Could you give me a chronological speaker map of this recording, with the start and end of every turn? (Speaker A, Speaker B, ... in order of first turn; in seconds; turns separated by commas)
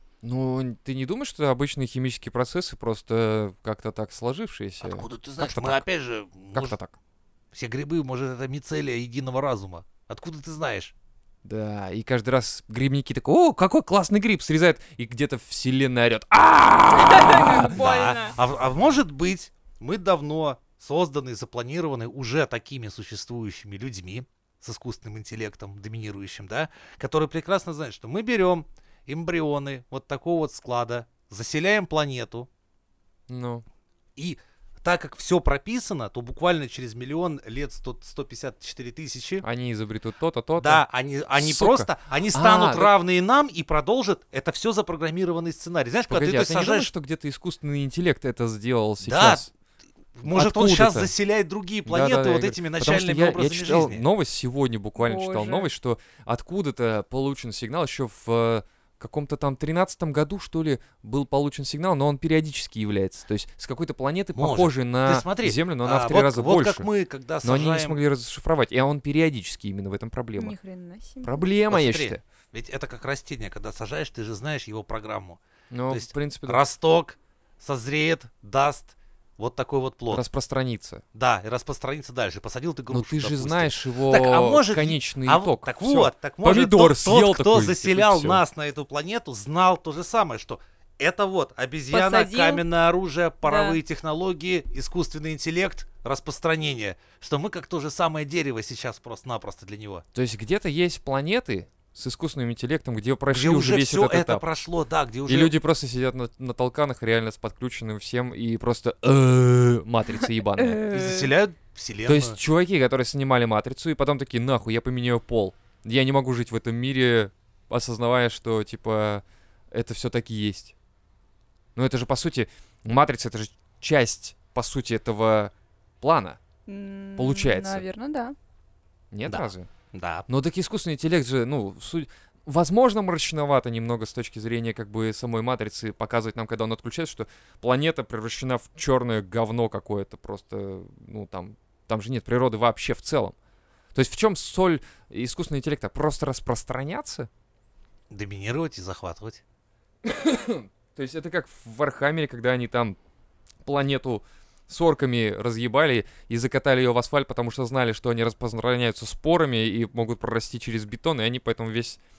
Speaker A: 0.2-5.8, Speaker B: 4.8-6.8, Speaker A: 6.5-6.9, Speaker B: 7.5-10.9, Speaker A: 11.4-17.7, Speaker C: 16.9-18.4, Speaker B: 17.7-32.5, Speaker A: 33.3-33.6, Speaker B: 34.1-39.4, Speaker A: 39.4-42.9, Speaker B: 40.6-46.9, Speaker A: 46.1-49.5, Speaker B: 49.0-49.5, Speaker B: 50.2-54.0, Speaker A: 50.2-51.1, Speaker A: 51.9-66.8, Speaker C: 55.0-55.7, Speaker B: 64.3-68.0, Speaker A: 67.4-70.5, Speaker C: 70.4-71.3, Speaker A: 71.2-72.2, Speaker B: 71.7-80.2, Speaker A: 75.7-76.6, Speaker A: 80.1-81.0, Speaker B: 81.1-100.0, Speaker A: 82.9-88.4, Speaker C: 91.9-92.6, Speaker C: 93.4-93.8, Speaker A: 100.1-104.4, Speaker B: 103.3-105.5, Speaker A: 105.3-110.8, Speaker C: 110.5-111.3, Speaker B: 110.9-112.4, Speaker A: 112.0-120.7, Speaker A: 121.8-126.4, Speaker C: 126.7-128.3, Speaker A: 127.2-127.8, Speaker A: 129.1-129.7, Speaker B: 129.3-130.2, Speaker A: 130.3-143.3, Speaker A: 143.9-147.3, Speaker B: 148.1-149.4, Speaker A: 150.0-153.0, Speaker A: 153.6-162.0